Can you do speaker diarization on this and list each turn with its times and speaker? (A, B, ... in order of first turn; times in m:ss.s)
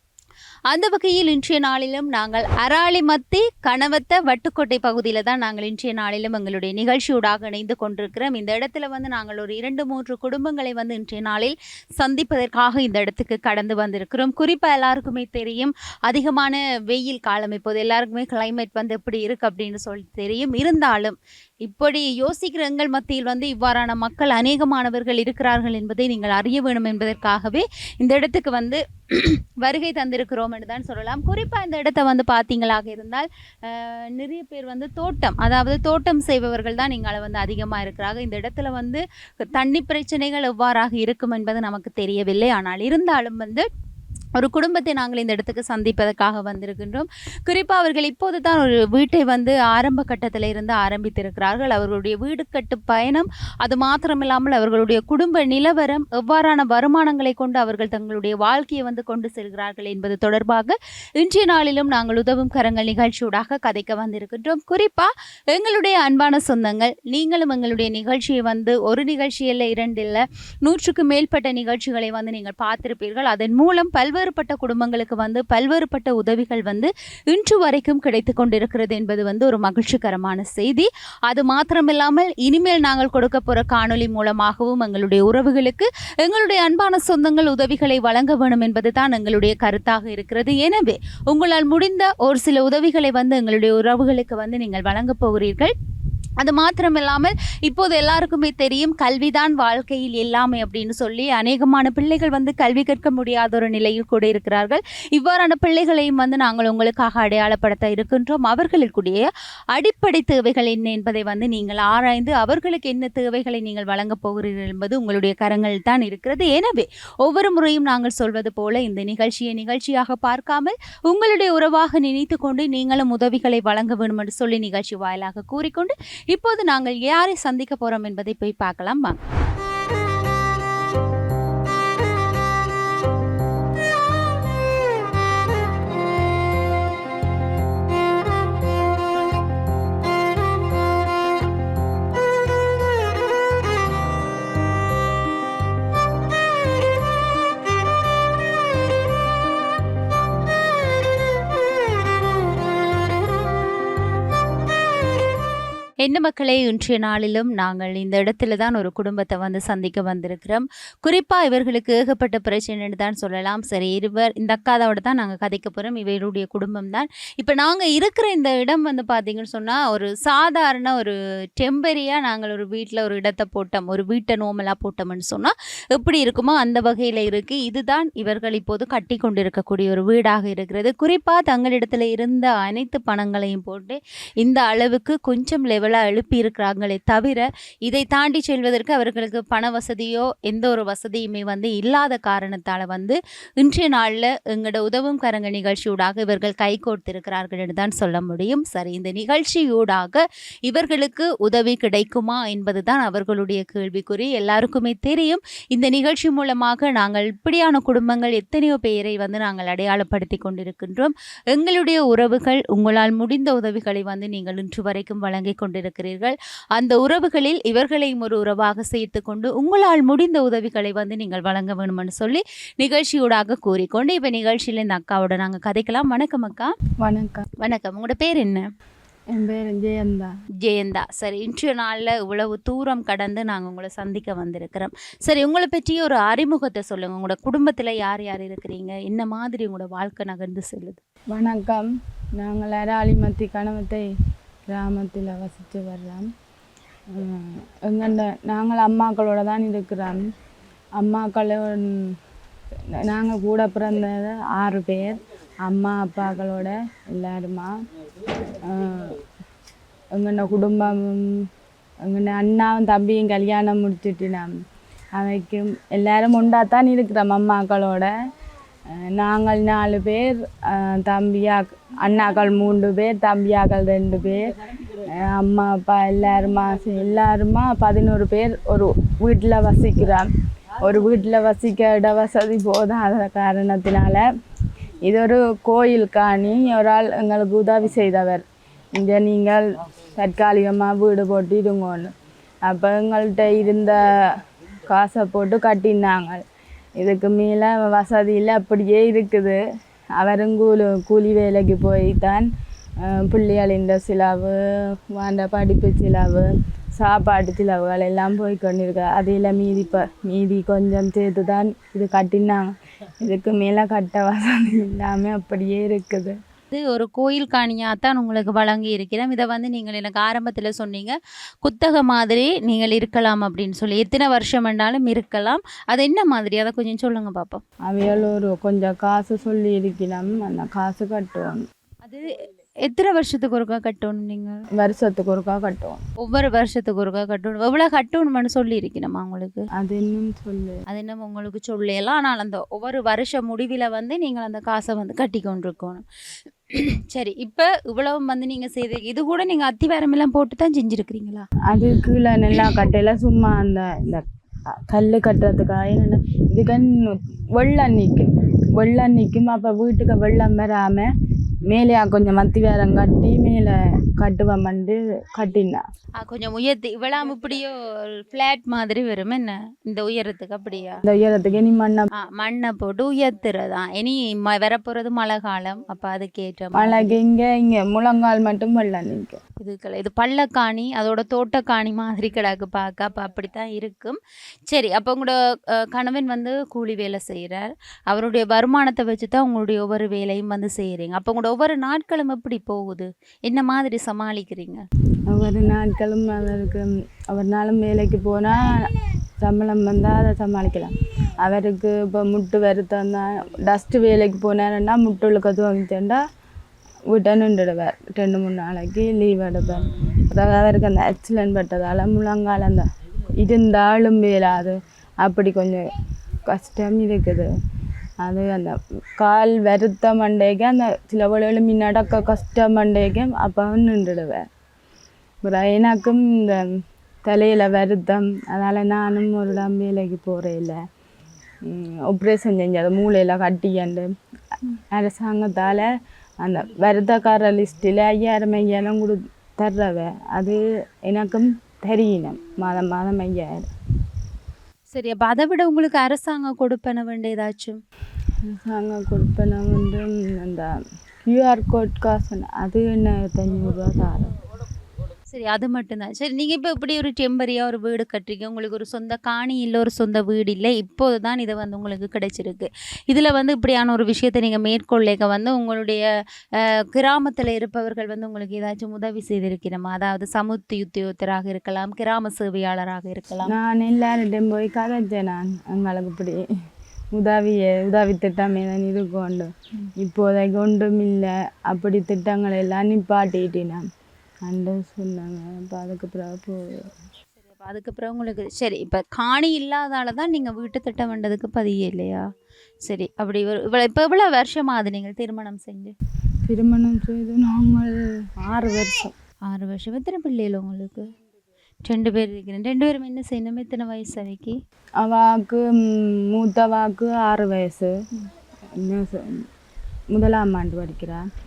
0:00.7-0:43.7 A
0:44.4-1:35.7 A
1:36.4-2:09.2 A
2:36.0-3:46.7 A
3:47.0-3:47.4 B
3:47.6-3:48.7 A
3:49.3-3:50.3 B
3:50.6-4:01.0 A
4:01.3-4:04.1 B
4:04.7-4:06.3 B
4:07.1-4:10.2 B
4:11.0-4:12.2 B
4:12.9-4:17.7 B
4:18.6-4:19.2 B
4:20.1-4:21.5 B
4:22.0-4:24.5 B
4:25.2-4:28.1 B
4:28.9-4:40.3 B
4:40.8-4:44.2 B
4:45.0-4:48.4 B
4:49.0-4:49.6 B
4:50.2-4:52.1 B
4:52.6-4:54.0 B
4:54.9-4:56.4 B
4:57.0-4:59.6 B
5:00.2-5:02.5 B
5:03.0-5:16.4 B
5:16.7-5:27.6 A
5:27.8-5:31.6 B
5:32.0-5:34.6 A
5:34.8-5:36.0 B
5:36.2-5:39.7 A
5:39.8-5:40.8 B
5:40.9-5:51.5 A
5:51.7-5:54.2 B
5:54.9-6:01.1 B
6:01.7-6:05.8 B
6:06.2-6:11.0 A
6:11.0-6:12.1 B
6:12.1-6:17.2 A
6:16.8-6:19.4 B
6:19.6-6:24.2 A
6:24.7-6:34.8 A
6:35.3-6:46.2 B
6:47.1-6:52.8 B
6:53.4-6:55.8 B
6:56.5-6:57.5 B
6:58.2-7:04.5 B
7:05.4-7:10.8 B
7:11.6-7:14.1 B
7:14.9-7:15.9 B
7:16.4-7:23.7 B
7:24.9-7:27.8 A
7:28.4-7:30.7 B
7:31.3-7:34.3 B
7:35.3-7:46.0 A
7:46.6-7:53.5 A
7:53.5-7:56.5 B
7:57.1-8:03.8 B
8:04.4-8:06.9 B
8:07.5-8:12.3 A
8:12.8-8:15.9 A
8:16.4-8:19.1 B
8:19.4-8:21.1 A
8:21.8-8:24.6 A
8:25.0-8:27.9 B
8:28.7-8:29.5 B
8:30.1-8:31.2 B